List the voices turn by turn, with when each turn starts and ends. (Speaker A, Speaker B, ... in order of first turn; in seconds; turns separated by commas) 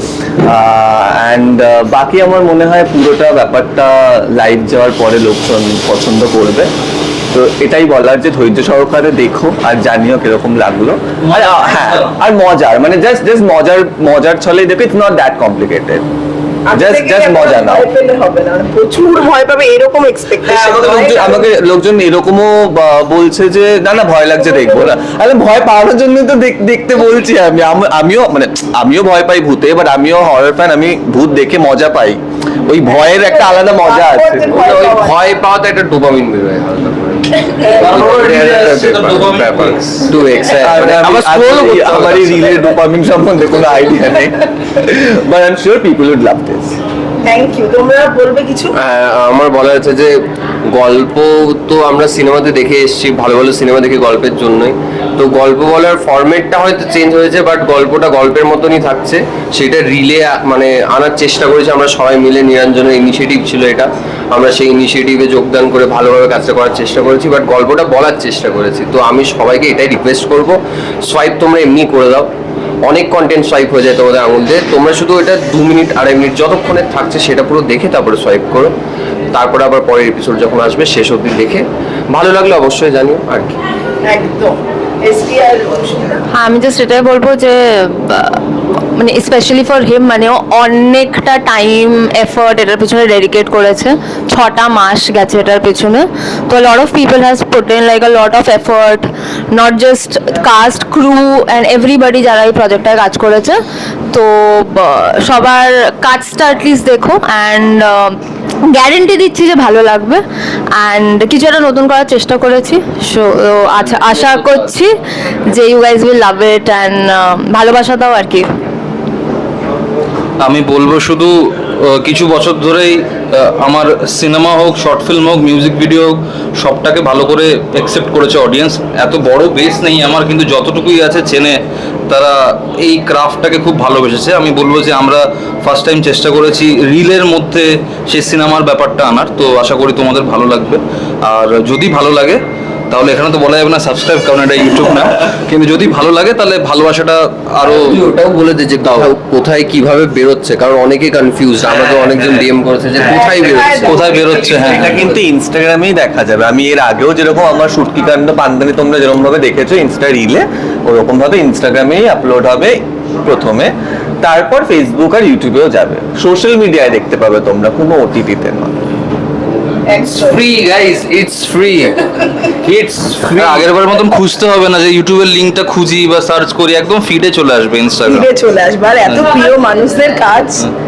Speaker A: 0.4-6.7, Speaker A: 7.3-16.0, Speaker B: 11.2-12.2, Speaker C: 16.7-21.5, Speaker A: 16.7-17.9, Speaker A: 20.4-34.5, Speaker C: 24.4-24.9, Speaker C: 32.9-35.2, Speaker D: 34.5-42.7, Speaker B: 37.6-40.2, Speaker A: 40.5-46.8, Speaker C: 47.2-48.7, Speaker D: 48.8-50.1, Speaker D: 50.7-72.3, Speaker D: 72.8-78.7, Speaker D: 79.3-83.6, Speaker C: 84.1-86.2, Speaker E: 86.3-88.4, Speaker E: 89.0-103.6, Speaker E: 104.1-110.2, Speaker E: 110.7-114.9, Speaker E: 115.5-118.5, Speaker B: 120.4-131.6, Speaker B: 132.1-148.0, Speaker D: 147.6-155.1, Speaker C: 153.1-154.8, Speaker B: 153.7-155.0, Speaker A: 154.5-168.9, Speaker C: 169.9-170.4, Speaker D: 169.9-172.3, Speaker B: 172.6-178.3, Speaker D: 173.3-173.7, Speaker C: 178.1-180.7, Speaker B: 179.0-179.4